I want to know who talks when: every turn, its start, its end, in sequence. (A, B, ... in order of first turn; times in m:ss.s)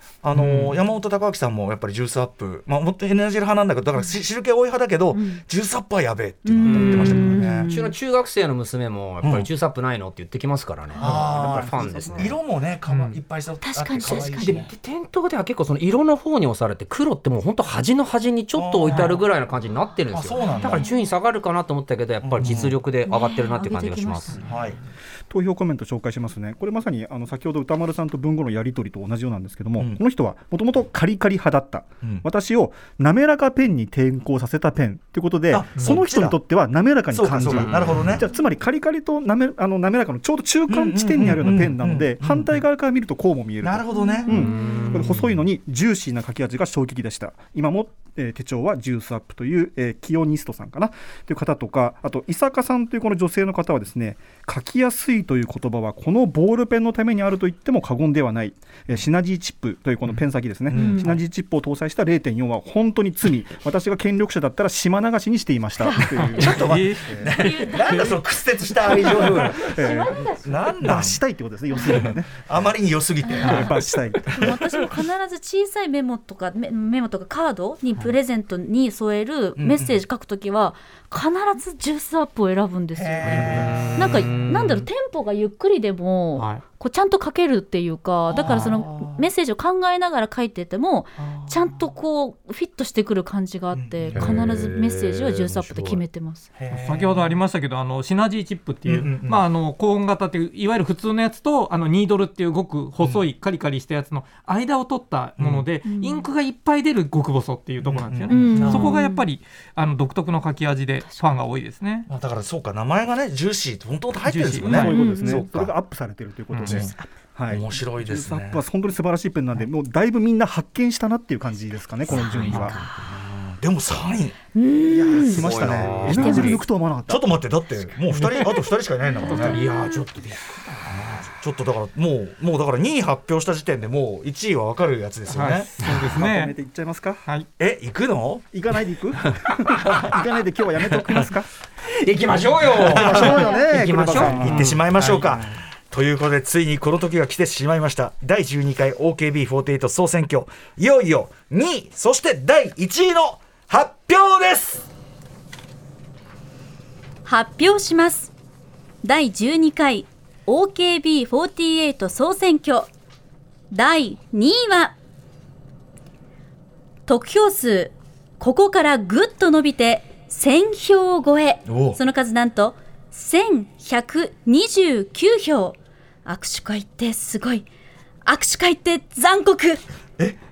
0:00.2-0:07.7 A
0:00.4-0:00.7 B
0:05.1-0:05.4 C
0:06.5-0:07.9 C
0:06.6-0:12.4 B
0:09.2-0:09.5 A
0:10.9-0:12.1 C
0:11.0-0:14.7 A
0:11.0-0:12.2 D
0:12.9-0:13.2 E
0:13.6-0:14.7 C
0:14.0-0:24.4 B
0:18.6-0:19.2 A
0:18.9-0:19.2 E
0:20.1-0:20.9 A
0:20.4-0:20.9 C
0:22.2-0:22.8 A
0:22.4-0:22.7 E
0:23.0-0:24.4 C
0:24.4-0:24.8 A
0:25.3-1:07.3 D
0:35.5-0:36.4 A
0:37.1-0:38.3 A
0:37.5-0:38.1 B
0:40.7-0:42.5 A
0:43.6-0:44.5 A
0:43.9-0:44.9 C
0:44.3-0:45.4 B
1:00.7-1:01.2 A
1:00.7-1:01.1 C
1:05.8-1:06.2 C
1:06.1-1:08.1 E
1:06.4-1:11.2 A
1:07.3-1:08.2 C
1:08.8-1:10.8 C
1:09.2-1:09.5 E
1:09.5-1:10.2 D
1:10.8-1:12.4 D
1:11.8-1:14.6 A
1:13.3-1:13.5 C
1:13.4-1:14.5 D
1:14.3-1:36.5 C
1:19.6-1:20.0 A
1:22.9-1:24.4 A
1:23.3-1:24.7 B
1:23.4-1:23.9 E
1:24.5-1:24.9 E
1:26.4-1:26.6 E
1:28.3-1:29.2 A
1:31.2-1:31.6 A
1:33.7-1:34.7 A
1:34.1-1:36.0 B
1:36.6-1:37.4 A
1:36.7-1:52.1 E
1:38.9-1:39.4 A
1:45.4-1:45.7 A
1:45.8-1:46.3 C
1:47.8-1:49.0 A
1:48.3-1:49.2 C
1:51.0-1:51.4 C
1:52.1-1:55.7 A
1:54.2-1:54.9 E
1:54.6-2:02.8 D
1:54.8-1:55.5 C
1:56.5-1:56.8 E
1:56.6-1:56.9 A
1:57.5-1:58.6 A
2:02.1-2:03.2 C
2:02.2-2:09.6 A
2:02.2-2:02.8 B
2:04.5-2:05.5 C
2:05.2-2:06.6 B
2:05.3-2:07.3 D
2:06.2-2:06.6 C
2:09.2-2:10.0 C
2:09.2-2:10.9 B
2:10.9-2:15.8 A
2:15.3-2:16.5 E
2:15.8-2:17.3 D
2:17.6-2:18.5 A
2:18.5-2:21.5 D
2:19.9-2:20.2 A
2:22.0-2:24.8 B
2:22.7-2:23.4 A
2:22.9-2:24.6 D
2:23.1-2:23.8 C
2:24.0-2:25.6 E
2:24.2-2:34.9 A
2:37.3-2:38.3 C
2:39.0-2:42.9 C
2:43.7-2:45.0 C
2:47.1-2:57.7 C
2:51.7-2:52.0 A
2:58.3-2:59.8 C